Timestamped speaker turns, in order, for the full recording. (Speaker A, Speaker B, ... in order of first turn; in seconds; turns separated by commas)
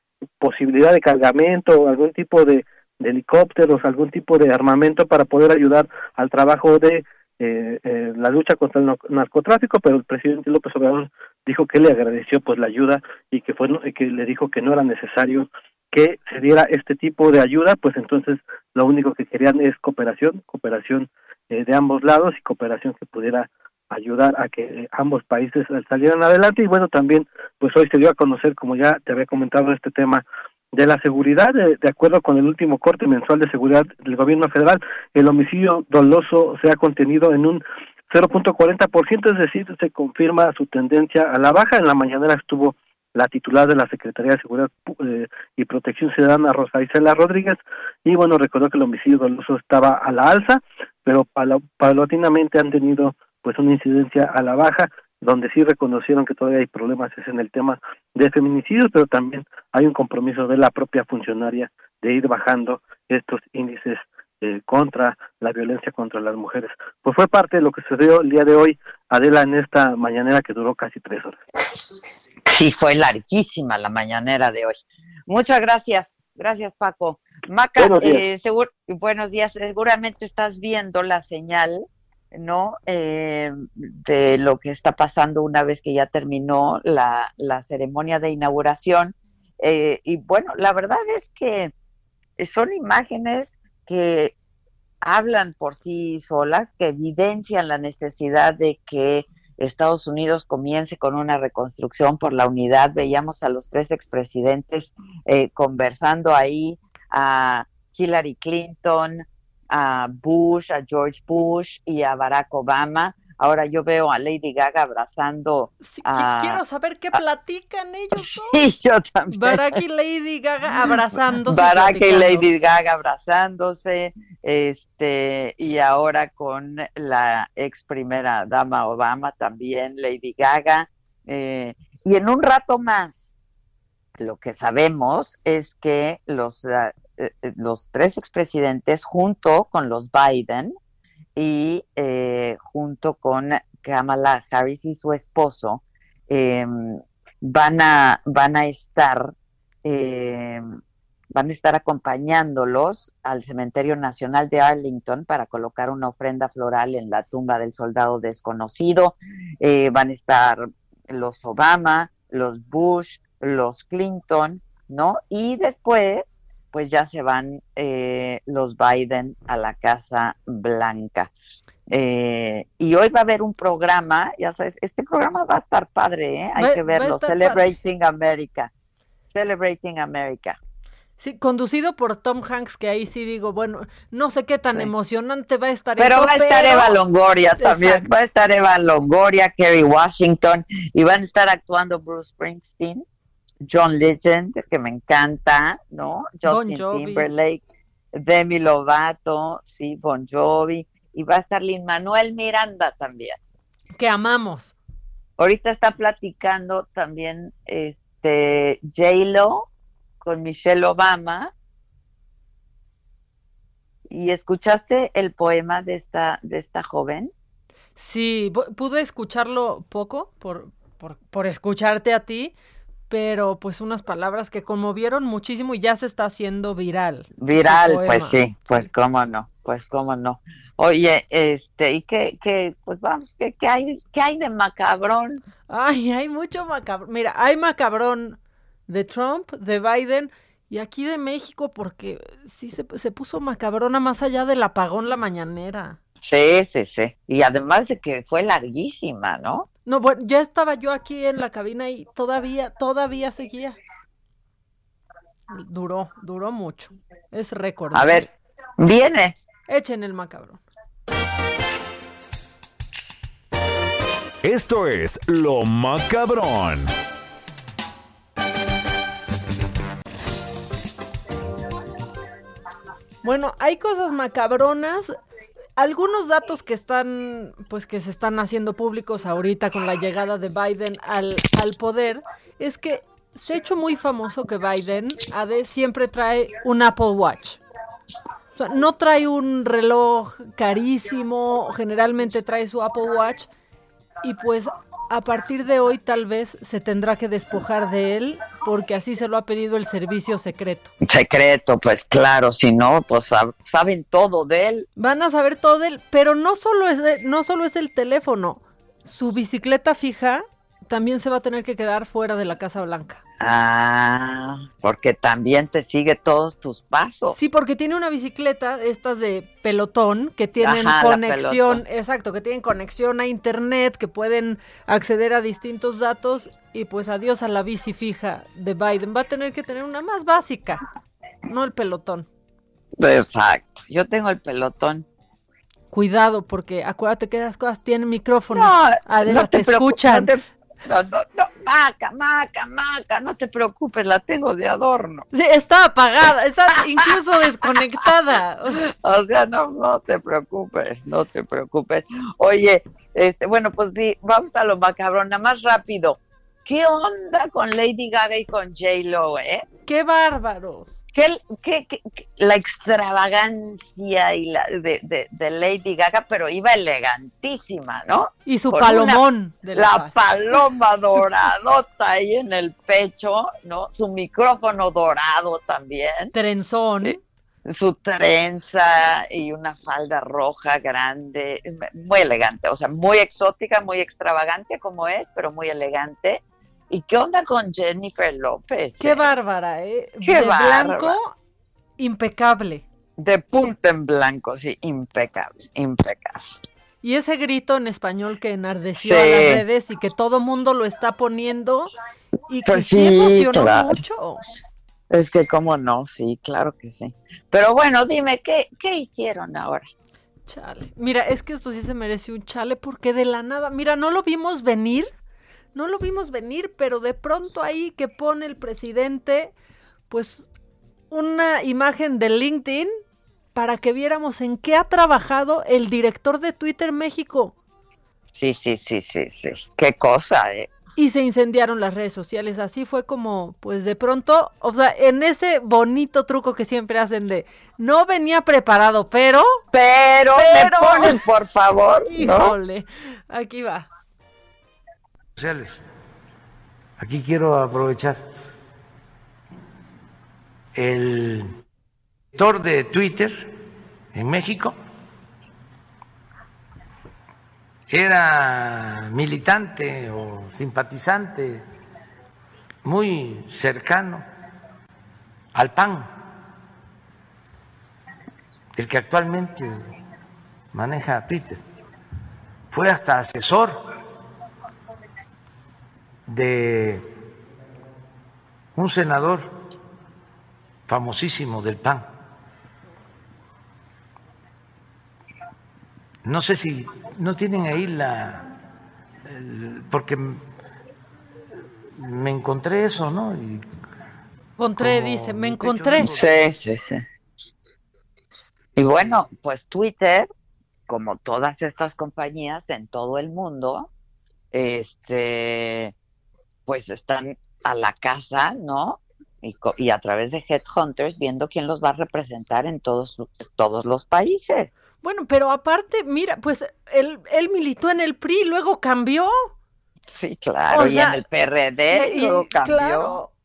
Speaker A: 0.4-71.4, Speaker B: 72.5-91.7, Speaker A: 77.8-78.3, Speaker B: 92.4-94.3, Speaker B: 95.0-116.6, Speaker C: 115.8-118.8, Speaker B: 118.2-119.8, Speaker C: 119.3-122.5, Speaker B: 121.4-133.3, Speaker B: 134.2-140.8, Speaker B: 141.4-149.3, Speaker B: 149.8-150.7, Speaker B: 151.3-171.3, Speaker B: 171.9-178.7, Speaker C: 176.6-177.7, Speaker B: 179.3-180.6, Speaker C: 181.2-186.9, Speaker B: 186.0-193.0, Speaker C: 187.6-188.1, Speaker B: 193.6-197.6, Speaker C: 196.4-197.3, Speaker B: 198.1-203.4, Speaker C: 203.9-204.8, Speaker B: 205.4-209.7, Speaker B: 210.2-211.5, Speaker B: 214.1-217.3, Speaker C: 218.0-222.5, Speaker C: 223.1-228.8, Speaker B: 227.4-235.4, Speaker C: 235.7-246.0, Speaker B: 246.2-249.7, Speaker C: 249.9-253.8, Speaker C: 255.5-258.2, Speaker B: 257.9-259.4, Speaker C: 259.7-260.6, Speaker D: 264.4-266.9, Speaker C: 273.2-275.2, Speaker C: 275.8-287.6, Speaker C: 288.6-293.5, Speaker C: 294.2-300.9, Speaker B: 301.0-304.9, Speaker C: 305.0-313.2, Speaker B: 313.4-317.4, Speaker C: 317.4-330.9, Speaker B: 320.6-321.8, Speaker C: 331.5-332.3, Speaker B: 333.0-335.1, Speaker C: 335.9-340.3, Speaker B: 338.5-345.3, Speaker C: 345.3-348.8, Speaker B: 348.8-359.6, Speaker C: 359.9-360.9, Speaker B: 361.1-376.3, Speaker C: 368.5-370.3, Speaker C: 376.3-377.2, Speaker B: 377.0-389.3, Speaker C: 389.0-391.4, Speaker B: 390.2-391.2, Speaker C: 392.0-392.9, Speaker B: 393.2-396.6, Speaker C: 397.0-401.9, Speaker B: 399.0-399.6, Speaker C: 402.5-404.4, Speaker B: 402.6-404.0, Speaker B: 405.1-409.9, Speaker C: 410.5-415.1, Speaker C: 415.8-419.5, Speaker C: 420.1-420.5, Speaker C: 421.1-422.9, Speaker C: 423.6-427.5, Speaker B: 428.3-430.7, Speaker C: 431.0-439.6, Speaker B: 439.7-442.6, Speaker C: 440.3-441.3, Speaker C: 442.1-443.9, Speaker E: 445.4-445.8, Speaker E: 447.0-448.2, Speaker E: 450.8-451.5, Speaker E: 452.3-453.5, Speaker E: 454.1-454.8, Speaker E: 457.9-461.6, Speaker E: 462.9-464.2, Speaker E: 465.5-466.1, Speaker E: 468.8-469.9, Speaker E: 470.7-471.6, Speaker E: 472.7-473.8, Speaker E: 476.3-477.1, Speaker E: 478.8-479.5, Speaker E: 480.9-482.1, Speaker E: 486.2-488.5, Speaker E: 489.2-490.4, Speaker E: 491.9-493.6, Speaker C: 494.6-496.1, Speaker E: 494.8-496.3, Speaker B: 495.9-497.1, Speaker B: 498.8-500.3, Speaker B: 500.9-503.9, Speaker B: 504.5-505.9, Speaker B: 506.7-514.7, Speaker C: 515.0-519.5, Speaker B: 520.1-523.2, Speaker C: 520.7-521.2, Speaker C: 521.9-523.3